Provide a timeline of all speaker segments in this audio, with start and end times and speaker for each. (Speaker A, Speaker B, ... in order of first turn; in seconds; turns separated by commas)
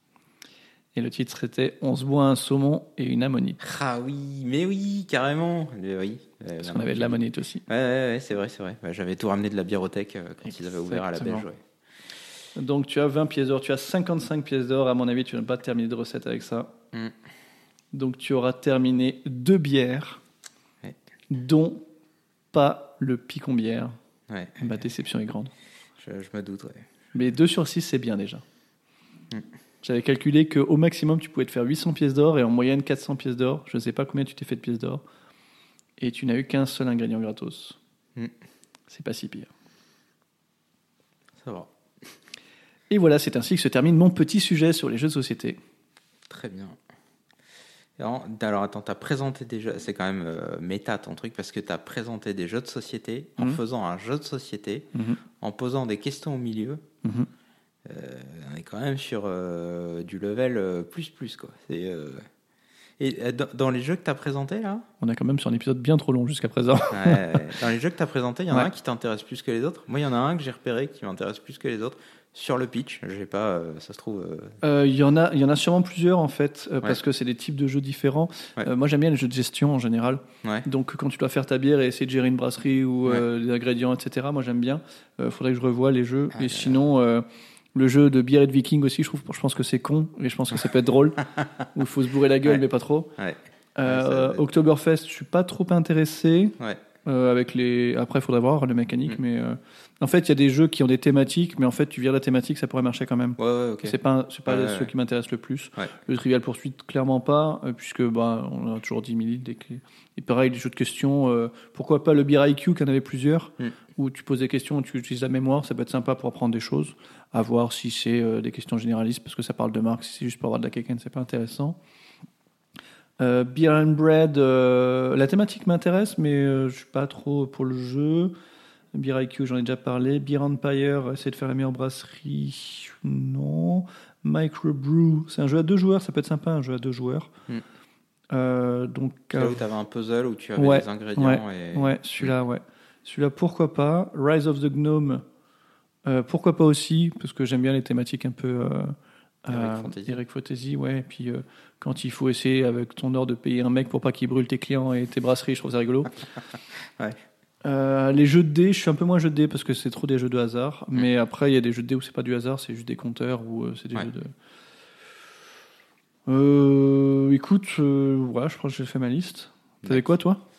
Speaker A: 0.9-3.6, Speaker B: 3.6-11.6, Speaker A: 6.6-7.7, Speaker A: 10.5-11.5, Speaker A: 12.6-16.7, Speaker A: 17.9-20.2, Speaker A: 21.3-21.9, Speaker A: 22.5-24.0, Speaker B: 24.3-24.7, Speaker A: 24.6-25.5, Speaker B: 26.0-26.9, Speaker A: 27.1-28.4, Speaker A: 29.8-35.0, Speaker A: 36.0-37.8, Speaker A: 38.9-39.5, Speaker B: 41.4-41.7, Speaker A: 42.9-45.6, Speaker B: 46.3-46.8, Speaker B: 48.0-56.8, Speaker A: 54.9-55.2, Speaker A: 57.0-57.3, Speaker B: 57.9-62.3, Speaker B: 63.0-64.9, Speaker A: 65.0-67.4, Speaker B: 66.9-74.6, Speaker A: 74.6-93.1, Speaker B: 86.3-86.8, Speaker B: 93.2-94.5, Speaker A: 93.8-121.8, Speaker B: 103.4-104.9, Speaker A: 123.2-128.3, Speaker A: 128.9-137.3, Speaker A: 138.3-139.6, Speaker B: 139.3-142.3, Speaker A: 140.6-145.2, Speaker A: 146.1-156.1, Speaker B: 149.5-150.2, Speaker A: 157.6-164.3, Speaker A: 166.3-170.4, Speaker B: 169.8-170.2